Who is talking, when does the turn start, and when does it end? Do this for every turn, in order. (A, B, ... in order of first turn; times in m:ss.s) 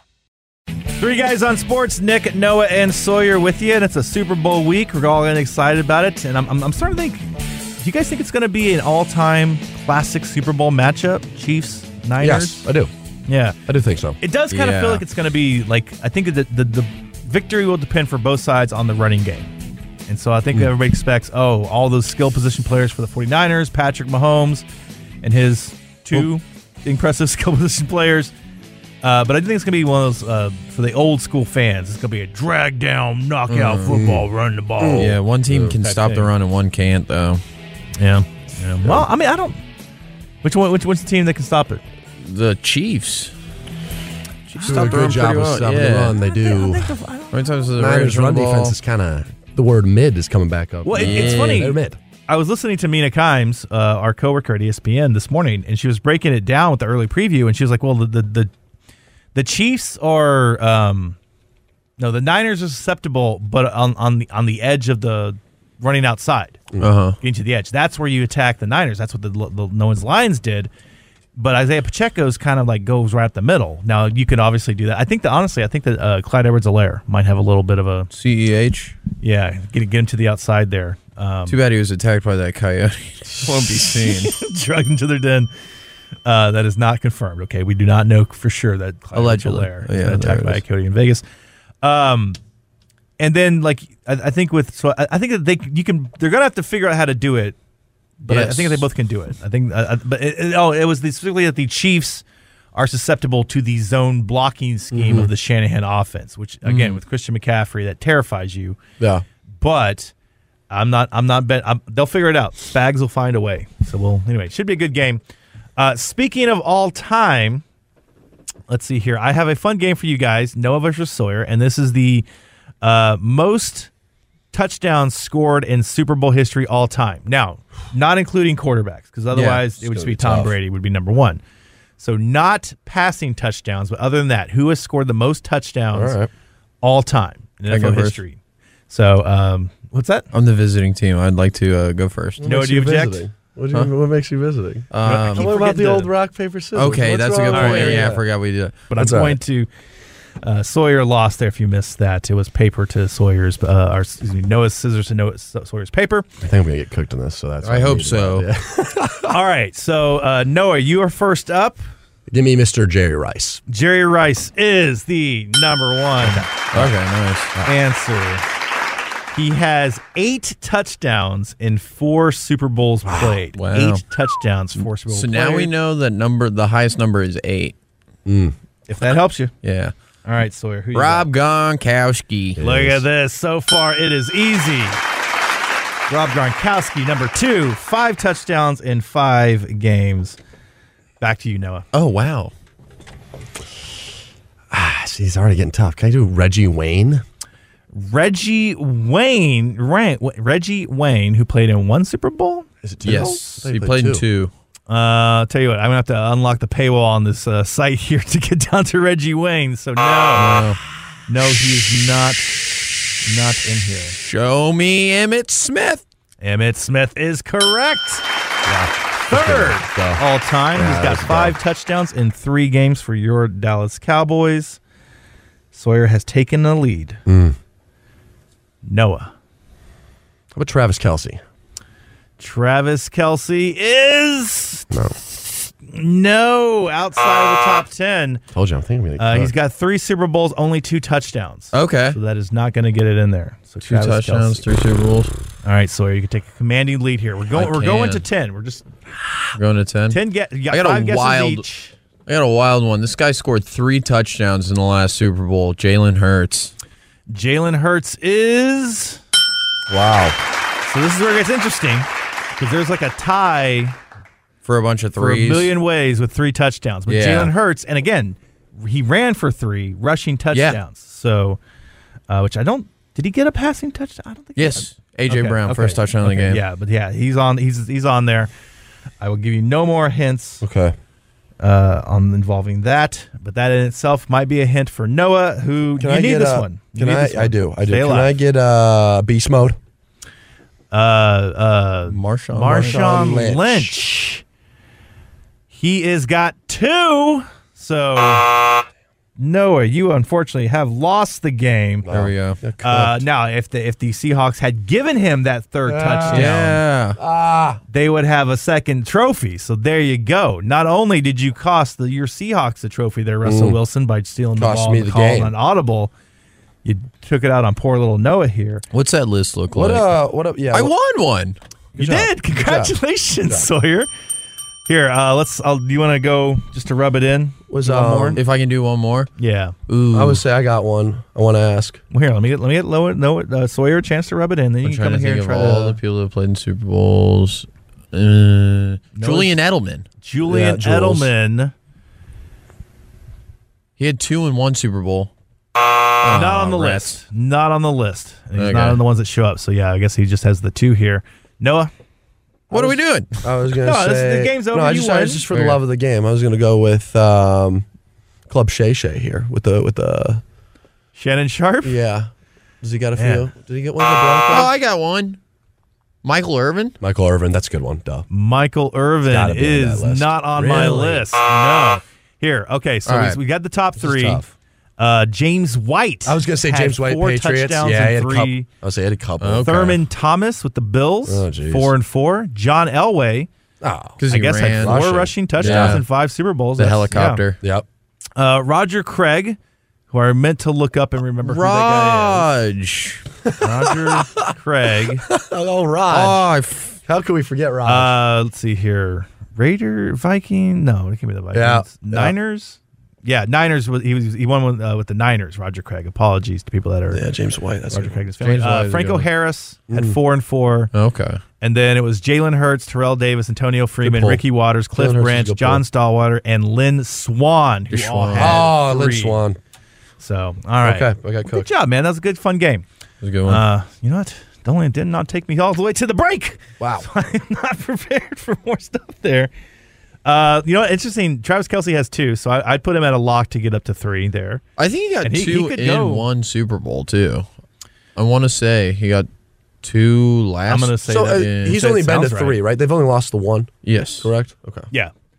0:01.0-0:07.3 A
0:07.8-0:12.7 A
0:12.2-0:12.9 B
0:13.3-0:13.6 A
0:13.7-0:14.2 B
0:14.2-0:19.5 A
0:14.5-0:15.0 C
0:20.1-0:24.6 A
0:25.2-0:28.3 A
0:29.0-0:35.2 A
0:33.5-0:34.0 C
0:33.9-0:34.3 B
0:34.8-0:35.8 B
0:34.9-0:37.4 C
0:35.8-0:36.3 A
0:38.0-0:39.6 A
0:40.4-0:41.8 A
0:42.2-0:43.3 C
0:44.5-0:46.2 C
0:44.5-0:45.2 A
0:44.6-0:46.9 B
0:46.2-0:47.6 A
0:47.3-0:48.8 C
0:47.8-0:52.0 B
0:50.8-0:58.5 A
0:50.9-0:51.7 C
0:59.4-1:01.2 A
1:02.0-1:06.6 A
1:06.8-1:07.2 C
1:07.2-1:10.7 A
1:11.4-1:18.1 A
1:18.1-1:19.0 C
1:19.2-1:21.6 A
1:21.5-1:24.3 C
1:23.5-1:25.5 A
1:26.2-1:31.2 A
1:29.1-1:30.6 C
1:31.8-1:32.4 A
1:33.2-1:37.6 A
1:38.2-1:48.8 A
1:38.3-1:38.9 C
1:44.9-1:45.3 B
1:46.6-1:47.0 C
1:49.6-1:50.1 A
1:50.7-1:55.2 A
1:55.8-1:57.6 A
1:58.7-2:02.3 A
2:02.8-2:03.9 A
2:04.5-2:11.4 A
2:09.3-2:09.6 C
2:09.8-2:10.6 B
2:12.0-2:16.2 A
2:15.9-2:16.3 B
2:16.8-2:20.3 A
2:17.7-2:18.2 C
2:20.3-2:22.5 C
2:22.4-2:28.2 B
2:22.4-2:23.3 A
2:24.9-2:25.5 C
2:25.0-2:26.1 A
2:26.7-2:28.8 C
2:27.5-2:28.1 A
2:28.9-2:29.7 A
2:29.0-2:29.4 B
2:30.4-2:36.3 A
2:36.4-2:39.4 B
2:37.6-2:38.5 C
2:39.3-2:41.8 A
2:42.3-2:43.6 B
2:43.7-2:46.5 A
2:46.2-2:47.6 C
2:47.6-2:48.4 A
2:49.3-2:55.7 A
2:53.1-2:53.4 B
2:53.5-2:54.0 C
2:54.8-2:57.8 C
2:58.2-2:58.6 B
2:58.9-2:59.5 A
2:59.6-2:59.9 C
3:00.2-3:01.3 A
3:00.9-3:02.6 C
3:02.6-3:03.0 B
3:02.6-3:05.0 A
3:06.1-3:10.4 A
3:11.2-3:11.9 A
3:11.9-3:12.5 C
3:14.7-3:17.2 B
3:17.9-3:22.7 A
3:22.8-3:24.2 B
3:23.0-3:24.5 C
3:24.9-3:30.7 A
3:30.3-3:30.8 C
3:31.3-3:32.6 A
3:33.2-3:34.2 A
3:34.2-3:36.0 C
3:36.4-3:38.2 A
3:38.6-3:41.6 B
3:39.3-3:44.8 A
3:45.7-3:47.2 A
3:47.3-3:47.6 B
3:48.8-3:49.3 A
3:50.6-3:51.4 B
3:52.4-3:58.4 A
3:54.9-3:55.2 B
3:58.5-3:59.5 B
3:59.2-4:04.7 A
4:01.7-4:02.2 C
4:03.8-4:05.3 C
4:05.6-4:09.5 A
4:07.5-4:08.2 C
4:09.6-4:11.6 C
4:10.1-4:11.9 A
4:12.3-4:16.7 C
4:17.3-4:19.2 A
4:19.9-4:20.4 C
4:20.8-4:24.0 A
4:24.6-4:25.7 C
4:25.2-4:31.6 A
4:27.1-4:27.5 C
4:30.5-4:30.8 C
4:32.3-4:38.5 A
4:34.6-4:36.6 C
4:39.2-4:40.6 A
4:40.6-4:41.0 B
4:41.6-4:48.3 A
4:46.0-4:49.8 B
4:50.9-4:54.4 A
4:52.1-4:53.3 C
4:52.6-4:54.0 B
4:55.7-4:58.6 A
4:59.4-5:02.1 A
5:02.0-5:03.2 B
5:02.1-5:02.6 C
5:02.8-5:06.8 A
5:05.8-5:06.5 B
5:06.3-5:07.2 C
5:07.2-5:07.8 B
5:07.9-5:16.1 A
5:13.4-5:13.8 B
5:14.6-5:15.5 B
5:16.8-5:18.8 A
5:18.9-5:20.1 C
5:19.8-5:20.9 B
5:20.7-5:21.6 C
5:22.0-5:24.1 A
5:22.0-5:23.0 B
5:23.5-5:23.7 B
5:24.9-5:27.6 A
5:27.7-5:28.4 B
5:27.8-5:29.3 C
5:29.4-5:29.8 A
5:29.9-5:30.4 C
5:30.1-5:32.0 B
5:32.1-5:36.0 A
5:34.8-5:40.1 C
5:39.2-5:39.6 A
5:40.2-5:41.7 A
5:40.5-5:41.3 B
5:44.0-5:45.3 C
5:46.2-5:47.2 C
5:46.3-5:51.9 A
5:48.6-5:49.0 C
5:52.7-5:57.8 B
5:52.7-5:53.4 C
5:53.8-5:55.5 A
5:55.5-5:55.8 C
5:58.5-6:00.4 B
6:01.1-6:02.0 A
6:01.8-6:02.3 B
6:02.8-6:04.7 B
6:03.2-6:03.5 A
6:04.5-6:05.4 C
6:06.2-6:07.0 C
6:07.0-6:08.3 B
6:08.3-6:14.4 A
6:09.3-6:11.3 B
6:13.1-6:13.4 C
6:14.0-6:14.5 B
6:15.0-6:18.7 A
6:16.2-6:20.0 B
6:19.4-6:20.0 C
6:19.6-6:23.5 A
6:21.2-6:21.9 B
6:23.8-6:26.0 B
6:24.2-6:26.0 C
6:24.3-6:27.4 A
6:26.8-6:27.6 C
6:28.4-6:29.6 A
6:30.1-6:32.5 A
6:31.4-6:33.2 C
6:33.6-6:35.3 A
6:33.9-6:34.5 B
6:35.3-6:36.6 B
6:36.1-6:37.0 C
6:37.1-6:38.2 B
6:37.8-6:47.2 A
6:41.5-6:42.4 B
6:47.1-6:48.2 B
6:47.9-6:50.9 A
6:48.4-6:49.3 C
6:49.9-6:50.2 B
6:50.9-6:51.4 C
6:51.6-6:59.4 A
6:54.0-6:55.8 B
6:57.9-6:58.7 C
6:58.4-6:59.6 B
7:00.2-7:02.8 A
7:00.8-7:01.7 B
7:03.2-7:03.6 C
7:03.4-7:09.5 A
7:06.8-7:07.1 B
7:10.2-7:14.6 A
7:14.8-7:17.5 C
7:15.2-7:16.3 A
7:18.2-7:19.3 C
7:19.8-7:21.7 C
7:20.7-7:22.6 A
7:21.0-7:24.9 B
7:23.8-7:24.3 C